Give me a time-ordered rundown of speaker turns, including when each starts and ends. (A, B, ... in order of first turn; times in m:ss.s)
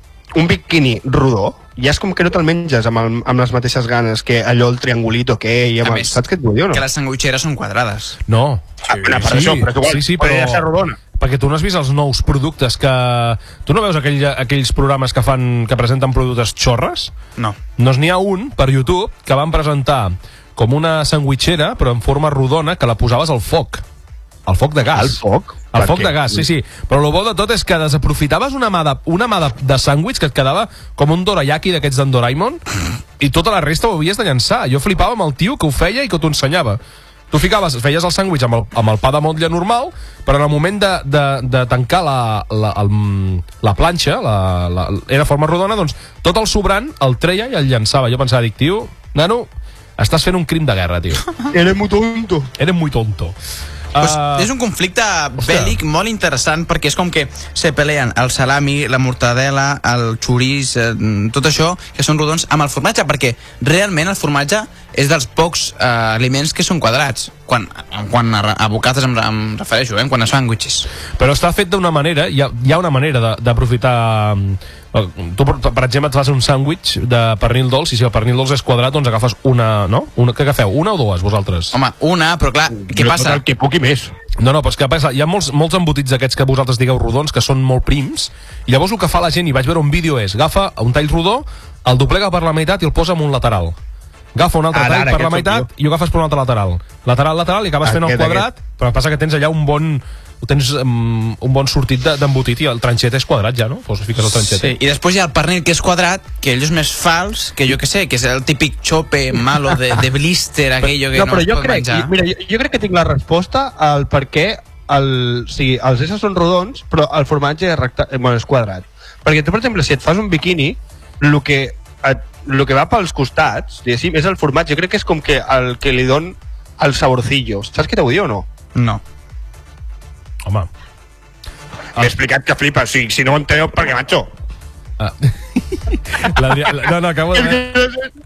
0:00.4-0:06.8 A
0:05.8-0:06.2 B
0:06.7-0:08.2 B
0:08.3-0:17.1 C
0:08.9-0:09.3 B
0:08.9-0:11.0 A
0:17.8-0:23.8 C
0:24.5-0:25.2 C
0:24.9-0:26.4 A
0:25.7-0:32.6 C
0:33.2-0:36.8 C
0:37.3-0:51.3 C
0:51.5-0:52.5 A
0:52.6-0:53.4 C
0:53.9-0:54.5 C
0:54.0-1:10.9 B
0:55.4-0:55.8 C
1:11.2-1:21.7 C
1:21.7-1:23.4 B
1:22.8-1:24.1 A
1:24.4-1:33.8 C
1:34.4-1:44.8 C
1:34.7-1:35.7 A
1:37.8-1:38.5 A
1:44.2-1:52.1 B
1:51.0-2:08.5 A
2:08.8-2:09.0 B
2:12.0-2:14.3 A
2:15.0-2:17.7 C
2:17.3-2:18.1 A